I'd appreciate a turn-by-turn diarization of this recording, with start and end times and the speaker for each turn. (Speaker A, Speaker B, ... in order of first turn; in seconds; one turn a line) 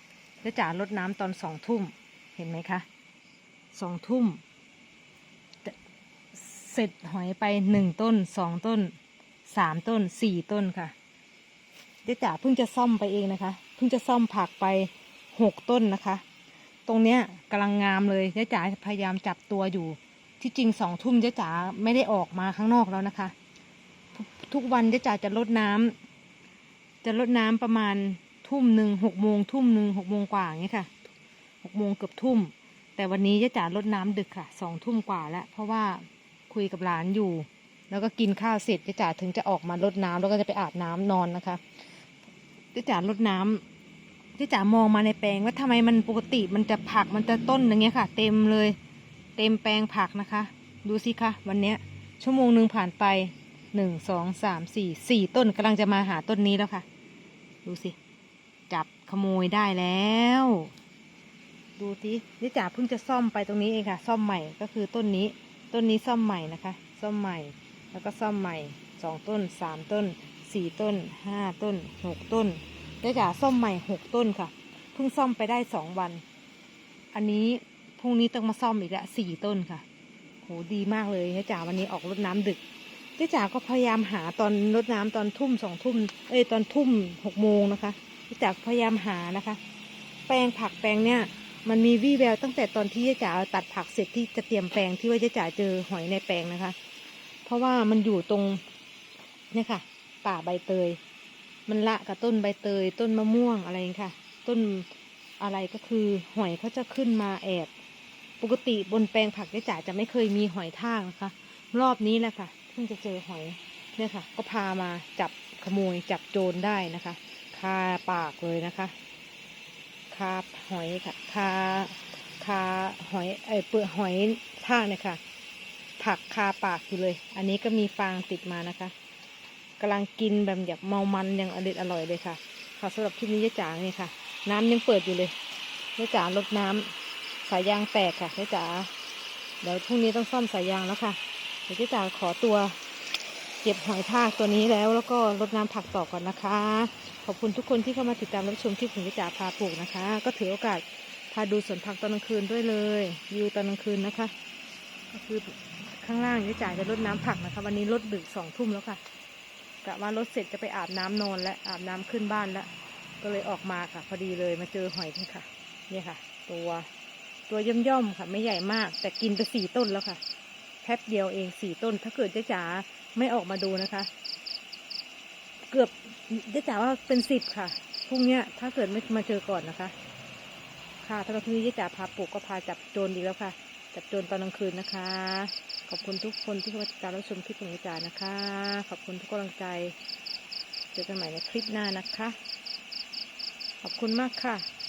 Speaker A: 0.4-2.9
Speaker A: 3.7-4.4
Speaker A: 6.3-10.9
Speaker A: 12.0-16.2
Speaker A: 16.9-23.3
Speaker A: 24.1-25.9
Speaker A: 27.0-30.9
Speaker A: 31.6-41.6
Speaker A: 42.7-43.6
Speaker A: 44.3-48.8
Speaker A: 49.4-56.9
Speaker A: 57.6-58.0
Speaker A: 58.7-60.7
Speaker A: 61.8-76.2
Speaker A: 77.1-79.8
Speaker A: 80.4-82.6
Speaker A: 83.2-89.6
Speaker A: 90.3-96.8
Speaker A: 97.4-98.6
Speaker A: 99.5-101.0
Speaker A: 101.7-104.9
Speaker A: 105.4-107.7
Speaker A: 108.4-118.9
Speaker A: 120.1-125.2
Speaker A: 126.0-128.9
Speaker A: 129.8-135.3
Speaker A: 136.0-136.9
Speaker A: 137.4-138.9
Speaker A: 139.6-142.8
Speaker A: 143.6-154.3
Speaker A: 155.1-159.0
Speaker A: 159.8-166.9
Speaker A: 167.5-170.2
Speaker A: 170.8-174.1
Speaker A: 175.7-179.9
Speaker A: 181.0-190.0
Speaker A: 190.9-192.4
Speaker A: 193.8-194.7